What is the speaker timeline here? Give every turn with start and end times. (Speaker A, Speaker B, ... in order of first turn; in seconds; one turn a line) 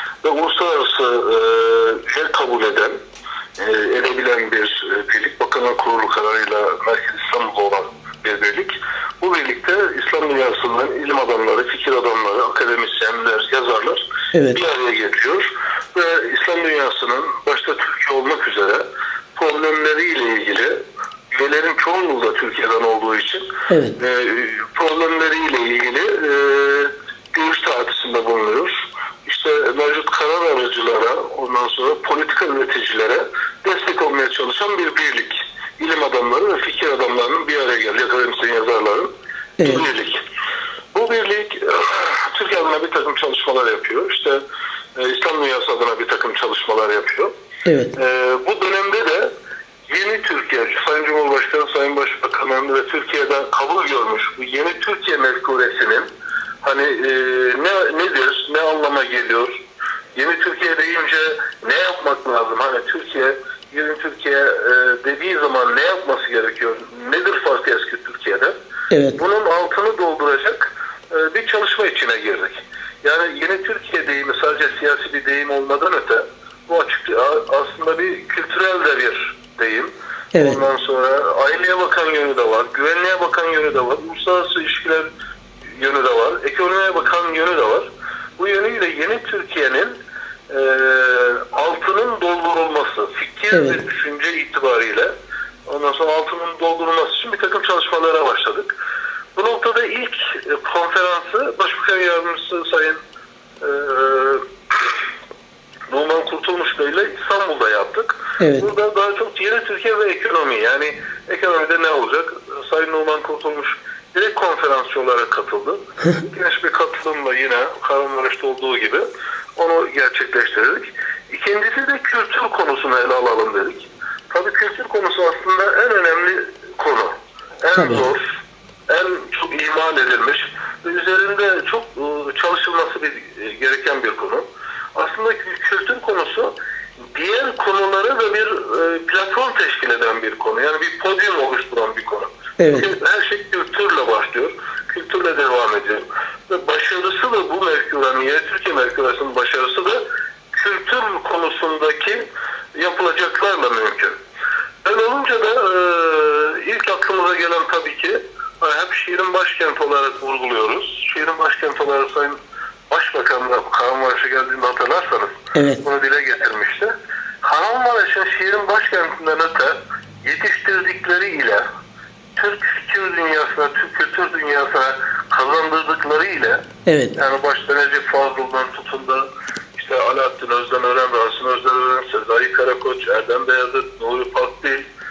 Speaker A: 0.2-3.0
Speaker A: 3.6-20.8
Speaker A: 21.3-39.1
Speaker B: 23.7-23.9
Speaker B: 39.6-39.8
Speaker A: 39.6-40.2
Speaker A: 40.9-44.4
Speaker A: 45.0-47.3
Speaker B: 47.6-47.9
Speaker A: 47.9-49.3
Speaker A: 49.9-56.1
Speaker A: 56.6-59.6
Speaker A: 60.1-68.5
Speaker B: 68.9-69.2
Speaker A: 69.2-85.1
Speaker B: 80.3-80.6
Speaker A: 85.8-89.9
Speaker A: 90.5-95.1
Speaker B: 93.5-93.8
Speaker A: 95.7-98.7
Speaker A: 99.3-103.0
Speaker A: 103.6-104.5
Speaker A: 105.9-128.2
Speaker B: 108.4-108.7
Speaker B: 127.8-128.0
Speaker A: 128.9-136.5
Speaker A: 137.1-154.2
Speaker B: 142.6-142.9
Speaker A: 154.8-162.4
Speaker A: 162.9-171.6
Speaker B: 165.5-165.8
Speaker A: 172.3-184.8
Speaker B: 176.8-177.2